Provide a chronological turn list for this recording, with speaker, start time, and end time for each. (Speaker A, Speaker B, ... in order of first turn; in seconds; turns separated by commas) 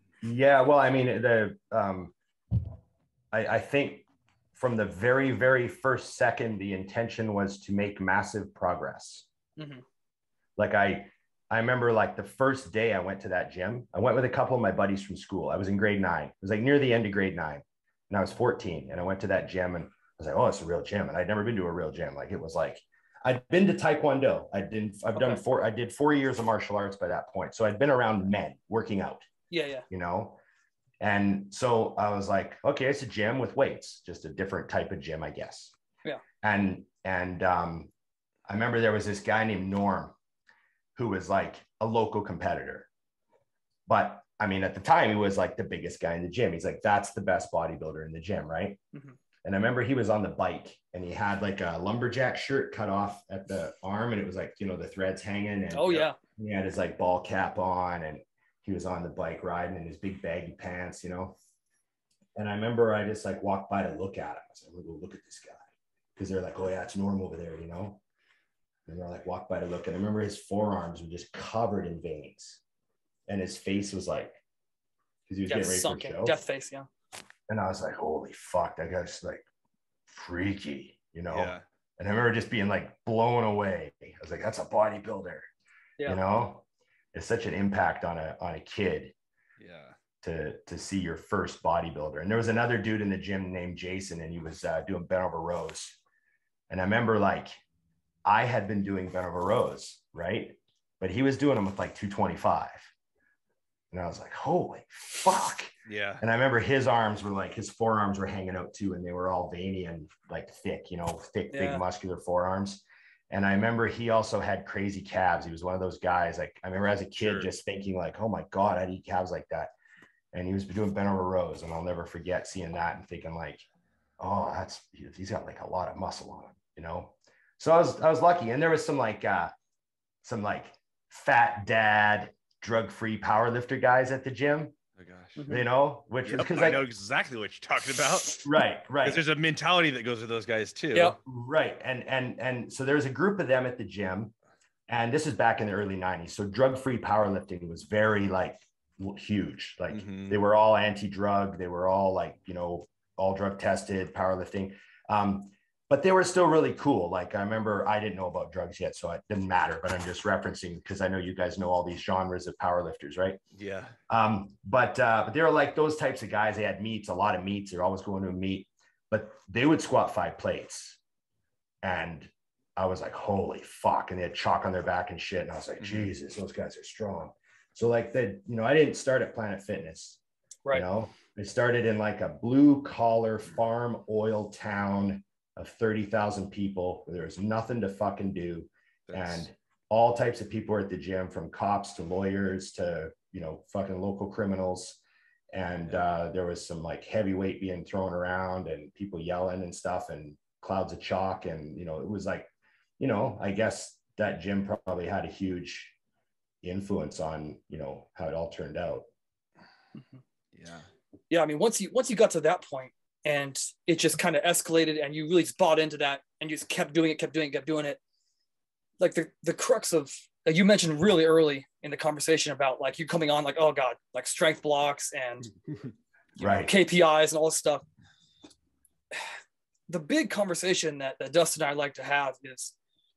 Speaker A: 0.2-2.1, Speaker A: 3.3-9.3, Speaker B: 9.6-9.8, Speaker A: 10.6-29.3, Speaker B: 25.2-25.4, Speaker B: 29.5-29.9, Speaker A: 29.9-30.4, Speaker A: 31.0-35.7, Speaker A: 36.4-37.9, Speaker A: 38.5-40.1, Speaker A: 41.0-42.9, Speaker A: 43.9-48.8, Speaker A: 49.5-61.4, Speaker B: 55.7-56.2, Speaker A: 62.4-65.6, Speaker A: 66.2-68.0, Speaker A: 68.9-72.6, Speaker A: 73.3-74.4, Speaker A: 75.3-76.4, Speaker B: 75.5-76.9, Speaker A: 77.5-79.5, Speaker A: 80.1-85.5, Speaker C: 81.3-81.6, Speaker A: 86.0-89.1, Speaker C: 89.6-90.0, Speaker A: 90.2-96.0, Speaker A: 96.7-97.5, Speaker A: 98.2-102.9, Speaker A: 103.9-119.7, Speaker C: 105.9-106.2, Speaker B: 111.5-111.8, Speaker C: 117.2-117.5, Speaker A: 120.3-123.7, Speaker A: 124.2-129.5, Speaker A: 130.2-134.8, Speaker C: 135.0-135.4, Speaker B: 135.4-135.7, Speaker A: 135.5-136.8, Speaker C: 136.3-138.5, Speaker A: 138.4-139.2, Speaker C: 139.0-141.2, Speaker A: 141.2-144.3, Speaker A: 144.9-163.4, Speaker C: 149.9-150.4, Speaker C: 163.6-163.9, Speaker A: 164.1-171.0, Speaker A: 171.8-180.2, Speaker C: 175.8-176.1, Speaker A: 180.7-195.0, Speaker C: 189.1-189.5, Speaker A: 195.5-205.9, Speaker A: 206.6-209.1, Speaker C: 210.5-210.9, Speaker B: 211.3-218.0, Speaker B: 219.0-225.5, Speaker B: 226.4-227.8, Speaker A: 226.4-226.7, Speaker B: 229.9-232.7